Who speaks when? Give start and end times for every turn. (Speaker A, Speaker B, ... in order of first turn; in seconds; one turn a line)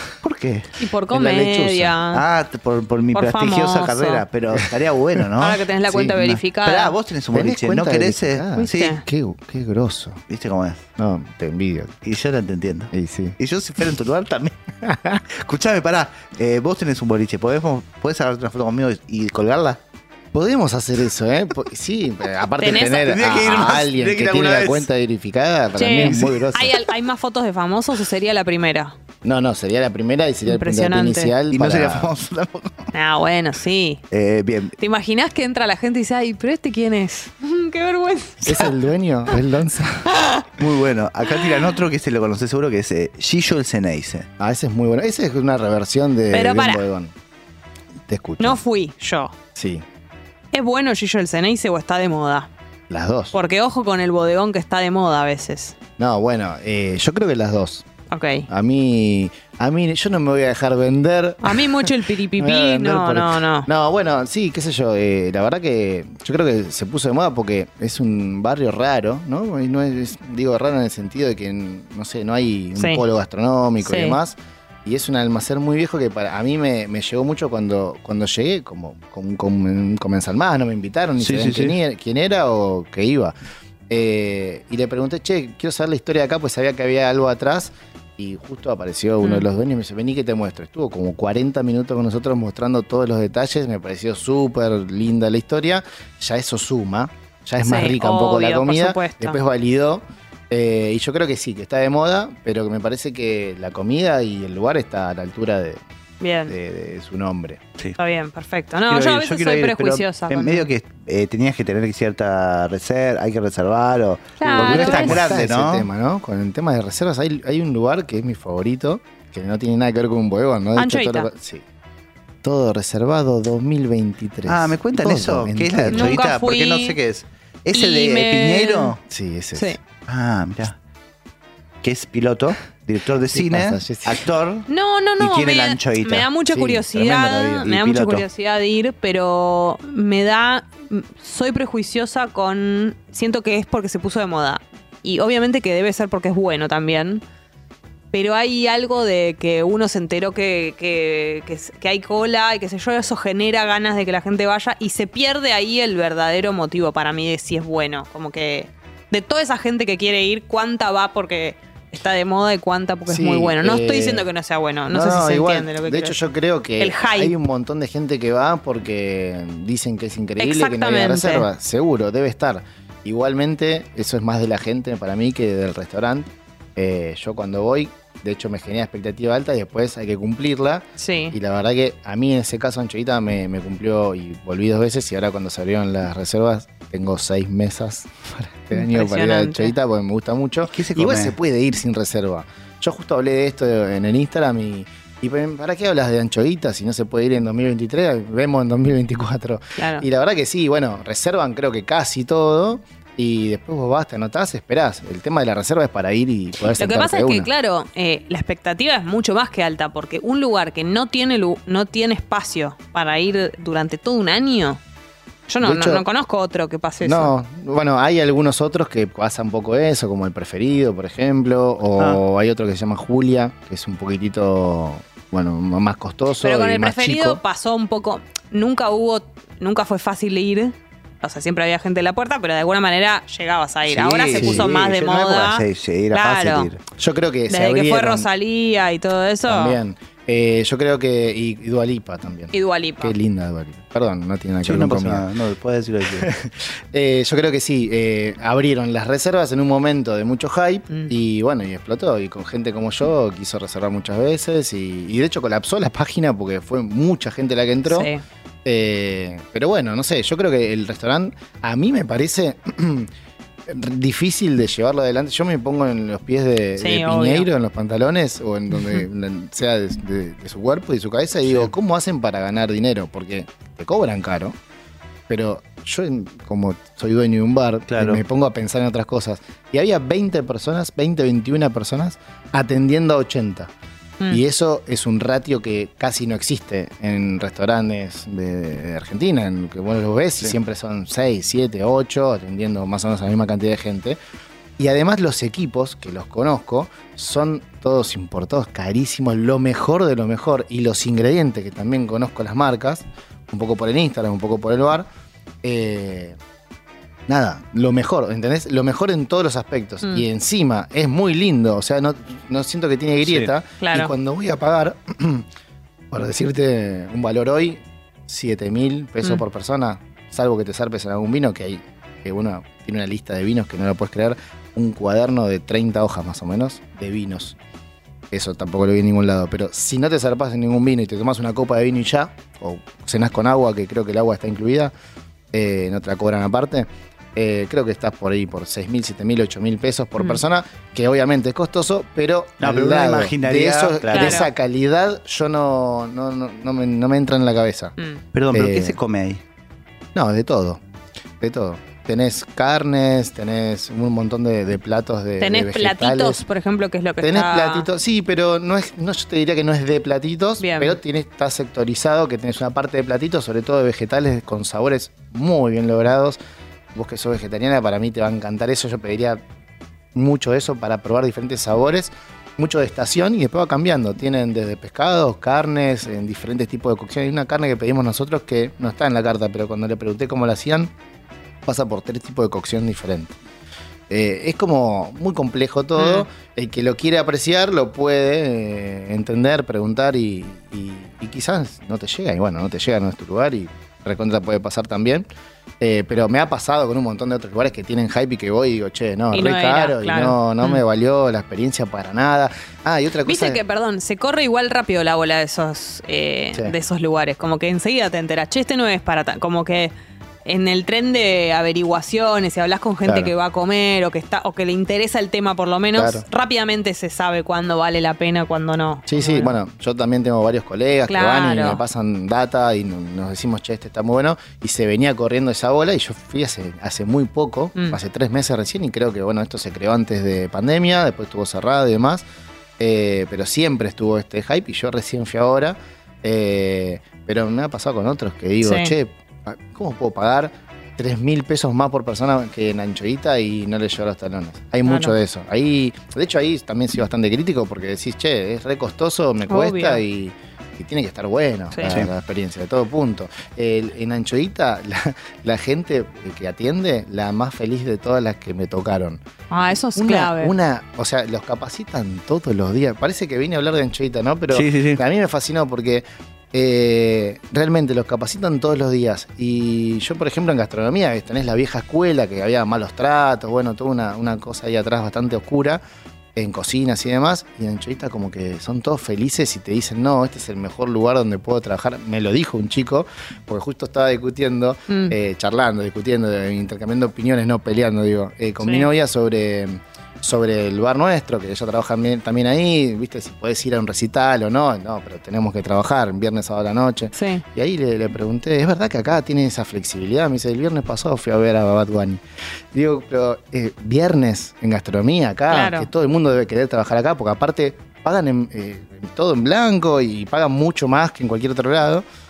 Speaker A: 0.2-0.7
Speaker B: 0.8-2.2
Speaker C: 1.1-1.9
Speaker A: 2.1-9.0
Speaker B: 3.1-4.2
Speaker B: 5.4-6.9
Speaker C: 5.9-6.2
Speaker C: 7.3-10.2
Speaker B: 8.6-9.0
Speaker A: 10.3-10.8
Speaker C: 11.0-12.0
Speaker A: 12.0-14.6
Speaker C: 12.9-13.3
Speaker C: 14.8-15.2
Speaker A: 15.3-19.8
Speaker C: 20.3-26.8
Speaker B: 22.6-23.1
Speaker A: 22.7-24.9
Speaker B: 25.8-28.9
Speaker C: 29.2-32.1
Speaker B: 30.4-31.3
Speaker A: 31.5-32.9
Speaker B: 32.9-34.0
Speaker A: 34.1-34.8
Speaker B: 34.8-38.7
Speaker C: 38.4-40.1
Speaker B: 40.1-40.5
Speaker A: 40.6-44.3
Speaker C: 44.4-47.1
Speaker B: 46.3-46.8
Speaker C: 48.1-48.6
Speaker B: 48.4-49.3
Speaker C: 49.5-49.8
Speaker B: 50.5-52.5
Speaker C: 52.9-53.3
Speaker B: 53.3-55.8
Speaker C: 56.0-57.8
Speaker B: 58.1-58.5
Speaker C: 58.5-83.3
Speaker B: 61.4-63.7
Speaker B: 72.8-73.0
Speaker B: 73.8-74.2
Speaker A: 81.2-81.8
Speaker C: 83.9-105.8
Speaker B: 89.2-89.5
Speaker B: 97.6-99.4
Speaker B: 106.2-106.5
Speaker C: 106.5-107.6
Speaker B: 108.0-110.7
Speaker A: 108.9-115.9
Speaker B: 114.4-115.3
Speaker C: 114.5-121.6
Speaker B: 120.8-121.3
Speaker C: 122.4-126.2
Speaker A: 124.5-129.0
Speaker B: 125.9-127.0
Speaker B: 127.7-128.9
Speaker C: 129.1-129.8
Speaker A: 130.1-130.8
Speaker A: 131.8-134.7
Speaker C: 133.3-134.2
Speaker B: 134.7-147.2
Speaker A: 135.2-136.3
Speaker C: 136.5-137.4
Speaker A: 136.9-138.2
Speaker B: 148.1-166.2
Speaker C: 163.1-164.3
Speaker C: 164.9-207.5
Speaker B: 166.8-167.3
Speaker B: 170.4-171.5
Speaker B: 181.0-181.3
Speaker B: 188.7-189.7
Speaker A: 190.7-191.3
Speaker B: 199.8-200.0
Speaker B: 206.8-214.8
Speaker B: 215.5-217.3
Speaker C: 215.6-216.0
Speaker C: 217.0-227.4
Speaker B: 226.4-236.7
Speaker A: 233.8-236.8
Speaker C: 234.3-234.7
Speaker C: 236.9-238.3
Speaker B: 237.5-239.8
Speaker C: 239.4-245.2
Speaker B: 242.5-243.1
Speaker A: 244.6-246.3
Speaker C: 246.1-258.1
Speaker B: 257.9-258.2
Speaker C: 258.6-263.1
Speaker C: 263.7-274.6
Speaker B: 266.8-267.5
Speaker B: 268.7-269.0
Speaker A: 271.4-271.7
Speaker C: 275.3-283.7
Speaker A: 277.9-278.2
Speaker C: 284.3-294.2
Speaker C: 294.8-305.1
Speaker C: 305.6-306.4
Speaker C: 307.3-315.4
Speaker A: 313.2-313.5
Speaker B: 313.8-314.1
Speaker C: 316.1-327.6
Speaker C: 328.3-334.9
Speaker C: 335.5-347.9
Speaker A: 342.6-344.4
Speaker B: 344.1-344.5
Speaker A: 348.3-349.4
Speaker C: 348.5-349.0
Speaker C: 350.1-350.8
Speaker C: 351.4-356.4
Speaker B: 355.4-357.9
Speaker C: 357.2-366.4
Speaker B: 360.6-361.0
Speaker C: 366.9-369.4
Speaker C: 370.1-380.9
Speaker C: 381.6-383.4
Speaker C: 384.1-395.2
Speaker B: 385.9-386.3
Speaker C: 395.8-403.6
Speaker B: 399.3-400.8
Speaker B: 403.2-409.9
Speaker B: 410.4-419.6
Speaker C: 413.0-413.3
Speaker C: 415.9-416.2
Speaker C: 419.1-432.2
Speaker B: 421.1-421.8
Speaker C: 432.8-459.2
Speaker B: 438.6-438.9
Speaker B: 444.9-445.1
Speaker B: 449.5-450.0
Speaker B: 459.5-460.5
Speaker C: 459.9-475.8
Speaker A: 464.5-465.0
Speaker C: 476.3-502.2
Speaker B: 484.9-485.1
Speaker B: 488.6-488.9
Speaker B: 497.1-497.4
Speaker C: 502.7-512.0
Speaker B: 505.5-505.9